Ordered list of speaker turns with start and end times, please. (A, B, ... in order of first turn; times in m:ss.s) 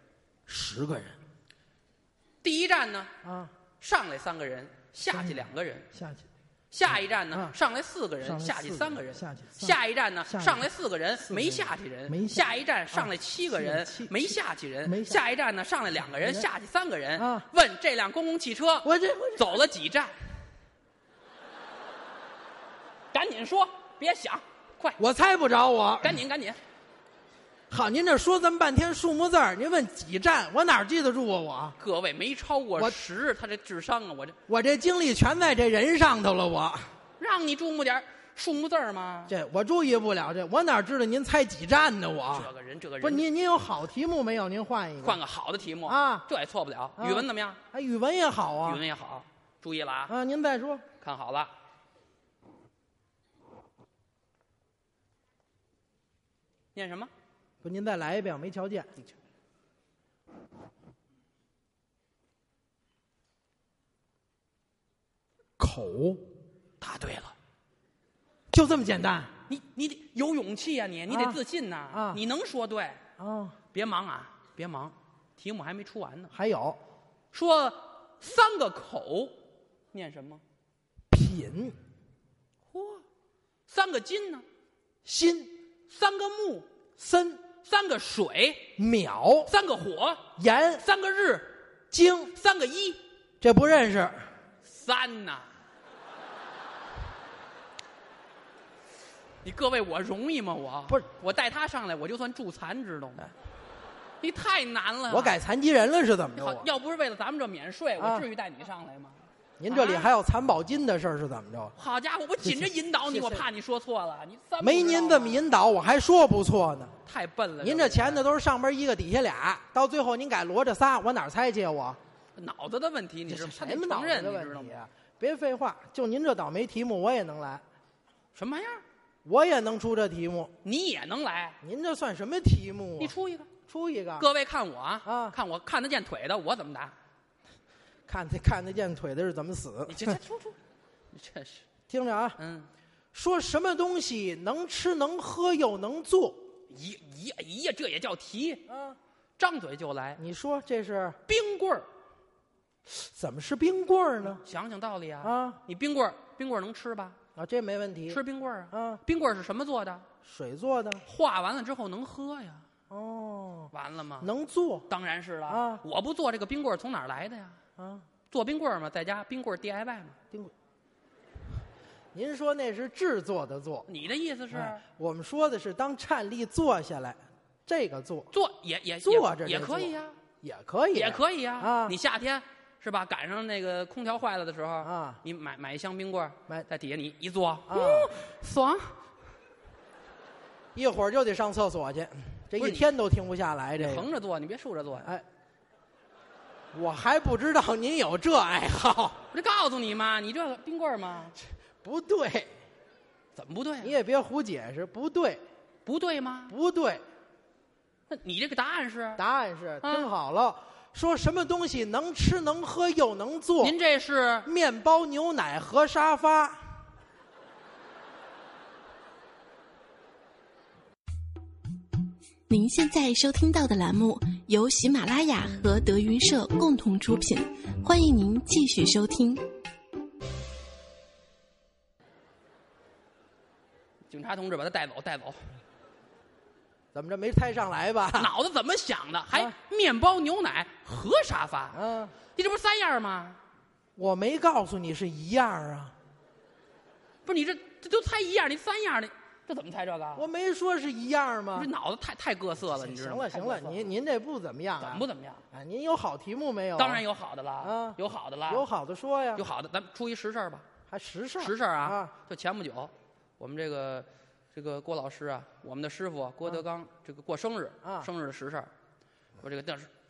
0:00.5-0:01.2 A
0:02.4-0:03.1 B
0:03.2-0:03.5 A
0:03.8-0:05.9 B
0:05.1-0:06.3 A
0:06.7-0:20.2 B
0:08.2-0:10.7 A
0:11.2-0:15.2 A
0:16.1-0:16.5 A
0:17.2-0:17.5 A
0:18.8-0:19.7 A
0:23.1-0:25.0 B
0:25.0-0:26.2 A
0:26.0-0:26.6 B
0:27.7-0:31.8 A
0:31.8-0:34.4 B
0:34.5-0:37.0 A
0:37.2-0:39.4 B
0:39.3-0:42.5 A
0:42.3-0:43.2 B
0:43.0-0:45.2 A
0:45.0-0:47.6 B
0:45.9-0:46.3 A
0:47.0-0:48.8 A
0:48.6-0:50.2 B
0:50.1-0:50.8 A
0:51.0-0:51.5 B
0:56.7-0:57.1 B
0:57.6-0:58.9 A
1:05.6-1:06.2 A
1:06.8-1:07.4 B
1:08.5-1:09.3 A
1:09.5-1:13.0 B
1:11.1-1:11.4 A
1:11.9-1:12.2 A
1:13.2-1:13.6 A
1:13.7-1:16.3 B
1:16.3-1:16.8 A
1:17.3-1:19.4 B
1:19.9-1:20.4 B
1:21.1-1:21.8 A
1:22.7-1:23.0 B
1:23.7-1:24.5 B
1:25.0-1:25.5 A
1:25.9-1:26.7 B
1:27.0-1:27.4 A
1:27.6-1:28.7 B
1:28.8-1:29.5 A
1:29.5-1:30.3 B
1:30.4-1:30.9 A
1:30.8-1:31.6 B
1:31.9-1:32.4 A
1:32.3-1:33.0 B
1:33.4-1:34.3 A
1:34.6-1:35.5 B
1:39.4-1:43.3 B
1:44.2-1:45.4 B
1:45.1-1:46.7 A
1:46.3-1:50.1 B
1:48.0-1:48.3 A
1:49.6-1:51.7 A
1:51.8-1:55.4 B
1:52.4-1:53.5 A
1:54.6-1:57.0 A
1:57.1-1:58.3 B
1:57.6-2:02.0 A
2:02.4-2:04.9 B
2:03.3-2:07.6 A
2:08.4-2:08.8 B
2:09.2-2:10.5 A
2:10.6-2:11.6 B
2:11.6-2:13.1 A
2:13.0-2:13.5 B
2:13.7-2:14.2 A
2:14.2-2:17.0 B
2:15.0-2:15.4 A
2:18.1-2:20.2 A
2:19.9-2:20.6 B
2:21.1-2:21.7 B
2:21.9-2:22.4 A
2:22.4-2:22.7 B
2:23.1-2:26.4 A
2:26.7-2:28.6 B
2:28.7-2:29.0 A
2:29.4-2:30.2 B
2:30.2-2:31.2 A
2:31.3-2:31.9 B
2:32.9-2:34.4 A
2:34.2-2:37.2 B
2:35.2-2:35.6 A
2:37.4-2:38.2 A
2:38.1-2:40.1 B
2:38.7-2:39.0 A
2:40.2-2:41.0 A
2:41.0-2:42.7 B
2:42.9-2:44.9 A
2:43.7-2:44.3 B
2:44.9-2:47.6 B
2:45.5-2:45.8 A
2:47.8-2:48.1 A
2:48.3-2:50.2 B
2:52.1-2:53.9 A
2:53.9-2:54.8 B
2:54.5-2:58.3 A
2:58.3-3:00.2 B
2:59.0-3:02.0 A
3:00.9-3:09.0 B
3:04.8-3:05.2 A
3:07.7-3:08.1 A
3:10.7-3:14.1 A
3:12.6-3:12.9 B
3:13.8-3:15.2 B
3:16.7-3:19.2 A
3:19.3-3:21.4 B
3:21.8-3:22.6 A
3:23.4-3:23.9 B
3:23.8-3:25.4 A
3:25.8-3:26.6 B
3:26.5-3:27.0 A
3:28.1-3:29.2 B
3:29.2-3:33.8 A
3:29.8-3:30.1 B
3:33.6-3:34.5 B
3:34.4-3:36.8 A
3:42.5-3:49.4 C
3:54.1-3:55.5 B
3:56.9-3:58.3 A
3:58.2-4:01.8 B
4:01.7-4:02.2 A
4:02.4-4:03.4 B
4:04.0-4:06.0 A
4:07.2-4:10.2 B
4:10.2-4:11.7 A
4:11.6-4:13.9 B
4:12.6-4:17.0 A
4:14.8-4:15.4 B
4:16.8-4:18.7 B
4:17.6-4:19.4 A
4:19.4-4:20.7 B
4:20.9-4:22.1 A
4:21.4-4:28.7 B
4:27.8-4:28.1 A
4:29.4-4:29.9 B